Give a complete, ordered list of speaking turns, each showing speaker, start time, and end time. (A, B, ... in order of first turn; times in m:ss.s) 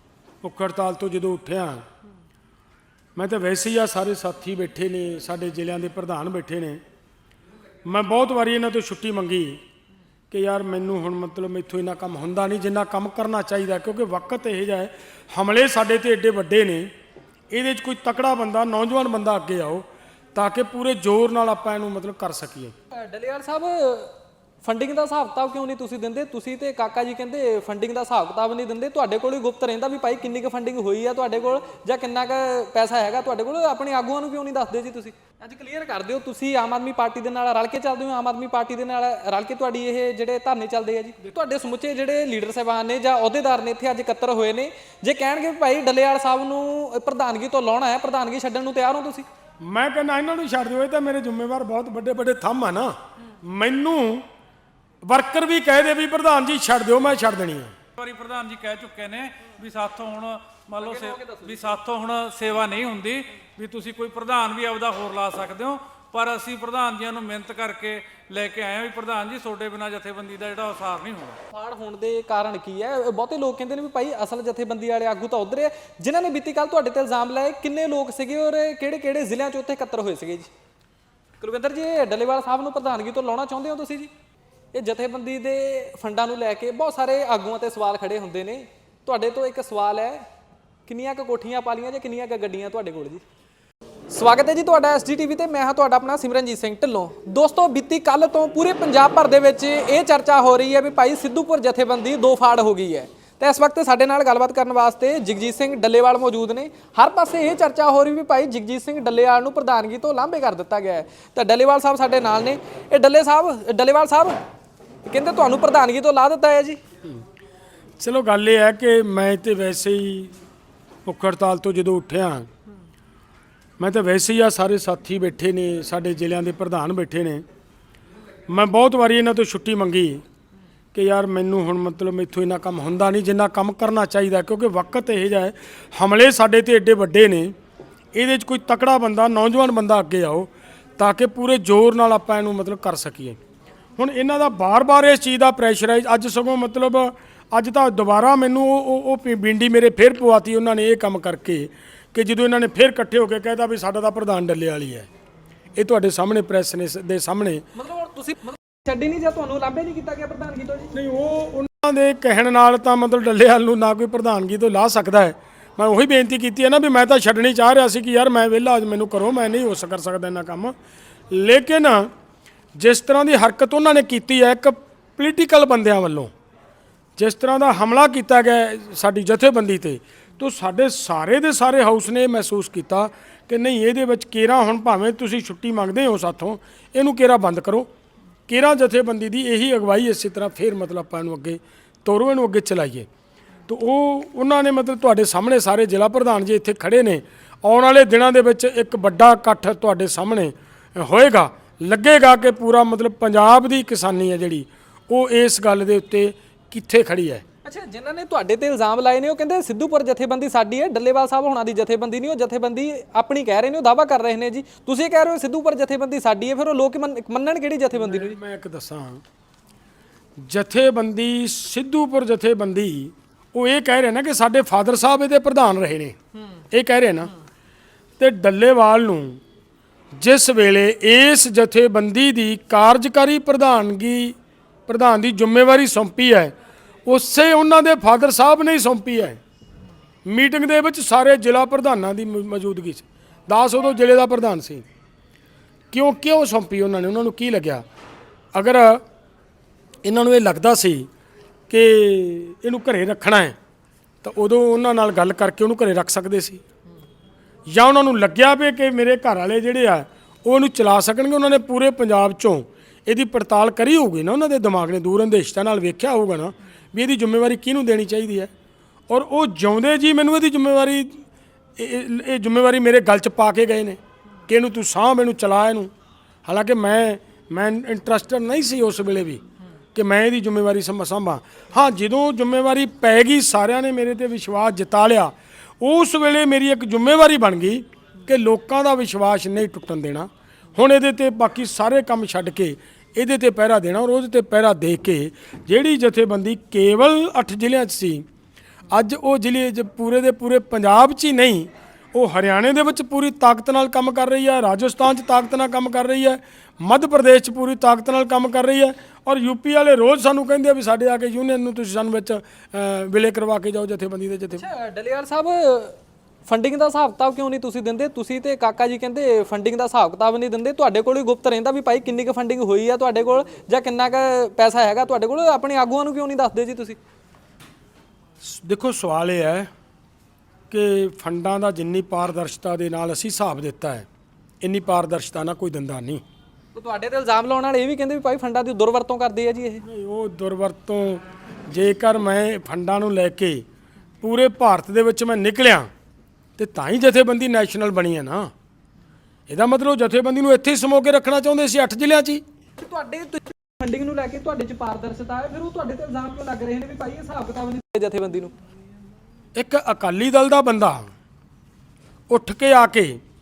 0:00.4-0:01.8 A
0:03.2-0:06.8 A
0:07.8-0:09.6 A
0:10.3-0:16.9 A
0:17.5-0:22.7 A
0:23.0-0:49.2 B
0:49.6-0:54.2 A
0:55.0-0:57.7 A
0:58.0-1:11.4 C
1:00.8-1:01.6 B
1:11.5-1:20.5 B
1:21.4-1:24.1 B
1:24.7-1:30.2 B
1:30.9-1:33.2 B
1:34.1-1:54.4 B
1:55.0-1:56.8 B
1:58.0-2:00.3 A
2:01.0-2:02.5 A
2:03.8-2:07.4 A
2:08.5-2:10.2 A
2:10.9-2:17.5 A
2:18.1-2:23.4 A
2:24.0-2:35.1 A
2:35.8-2:37.6 A
2:37.7-2:40.9 B
2:40.9-2:50.7 A
2:51.3-2:52.1 A
2:52.8-2:56.3 A
2:57.2-3:07.9 A
3:08.5-3:13.1 A
3:13.7-3:27.4 A
3:27.6-3:38.4 B
3:37.9-3:39.2 A
3:40.4-3:46.2 A
3:46.7-3:47.3 A
3:48.2-3:49.4 A
3:50.2-3:54.4 A
3:54.9-3:56.5 A
3:57.0-3:59.4 A
4:00.2-4:04.8 A
4:05.9-4:07.8 A
4:08.5-4:09.0 A
4:10.0-4:11.1 A
4:11.7-4:13.6 A
4:14.2-4:16.6 A
4:17.7-4:28.5 A
4:29.1-4:31.2 A
4:31.8-4:35.9 A
4:36.4-4:39.4 A
4:39.9-4:58.2 A
4:58.9-5:14.6 A
5:14.6-5:27.0 B
5:28.4-5:29.7 A
5:30.7-5:34.0 A
5:34.6-5:36.2 A
5:36.7-5:39.8 B
5:39.8-5:43.6 A
5:44.2-5:45.9 A
5:46.6-5:48.5 A
5:49.5-5:52.4 A
5:52.8-5:58.5 B
5:59.6-6:01.1 A
6:02.3-6:03.2 A